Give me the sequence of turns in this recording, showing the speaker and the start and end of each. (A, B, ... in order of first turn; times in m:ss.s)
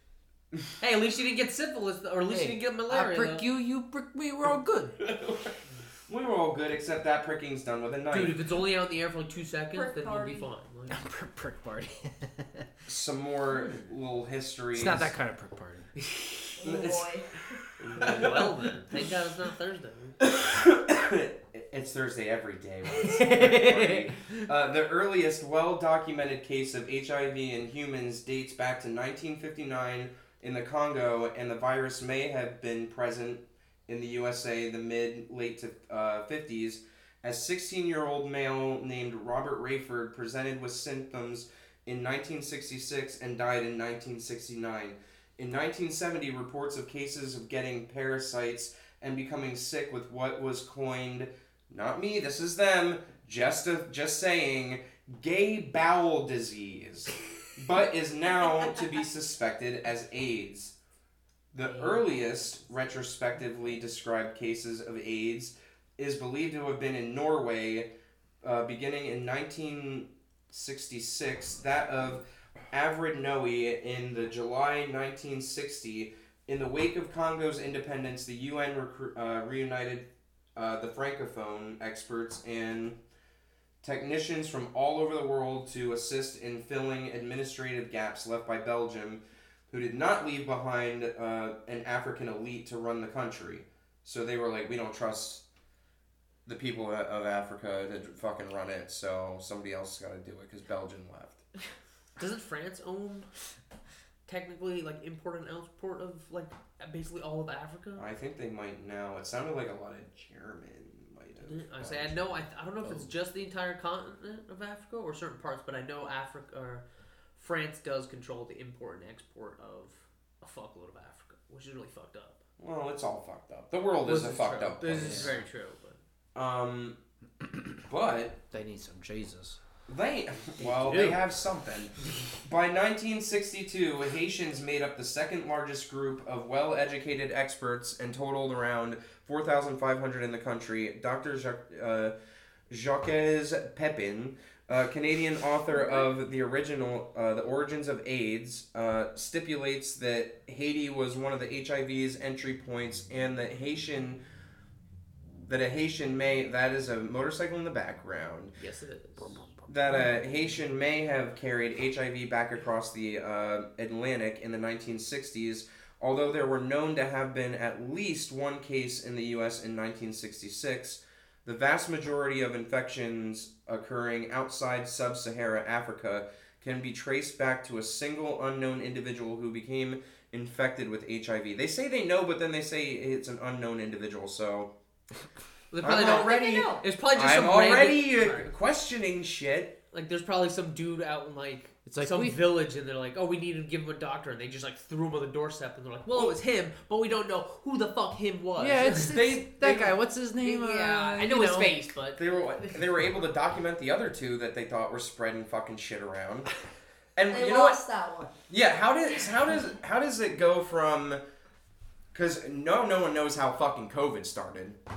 0:00.8-0:03.4 A
0:02.3-0:05.0 B
0:05.0-0:05.5 C
0:06.1-0:08.4 C
0:08.1-0:11.0 A
0:09.7-0:10.5 D
0:10.9-0:12.6 B
0:12.9-0:15.1 C
0:13.5-0:13.9 A
0:14.7-0:15.9 B
0:16.0-0:16.6 A
0:16.6-0:17.4 D
0:16.6-0:17.1 C
0:17.8-0:20.2 A
0:18.0-0:18.5 C
0:20.2-1:00.8 C
0:23.0-0:24.0 A
1:01.5-1:07.9 C
1:01.6-1:02.7 A
1:08.4-1:23.0 C
1:23.8-1:35.4 C
1:36.5-1:41.4 C
1:42.2-1:43.3 A
1:44.3-1:48.1 A
1:48.0-1:52.5 C
1:51.4-1:56.8 A
1:57.4-2:02.4 A
2:02.6-2:05.4 C
2:04.0-2:06.0 A
2:04.9-2:05.4 B
2:06.4-2:07.0 C
2:07.4-2:07.8 B
2:07.9-2:08.4 C
2:08.5-2:09.6 B
2:09.9-2:22.1 C
2:10.6-2:11.2 B
2:22.7-2:34.2 C
2:35.4-2:38.6 C
2:38.6-2:39.5 A
2:39.7-3:04.7 C
3:05.7-3:08.5 A
3:05.8-3:09.8 C
3:05.9-3:06.8 D
3:09.9-3:19.9 A
3:11.9-3:12.4 B
3:18.6-3:21.8 B
3:20.4-3:22.8 A
3:22.2-3:26.5 C
3:27.2-3:27.8 C
3:27.3-3:28.4 D
3:28.5-3:31.2 C
3:32.1-3:34.8 C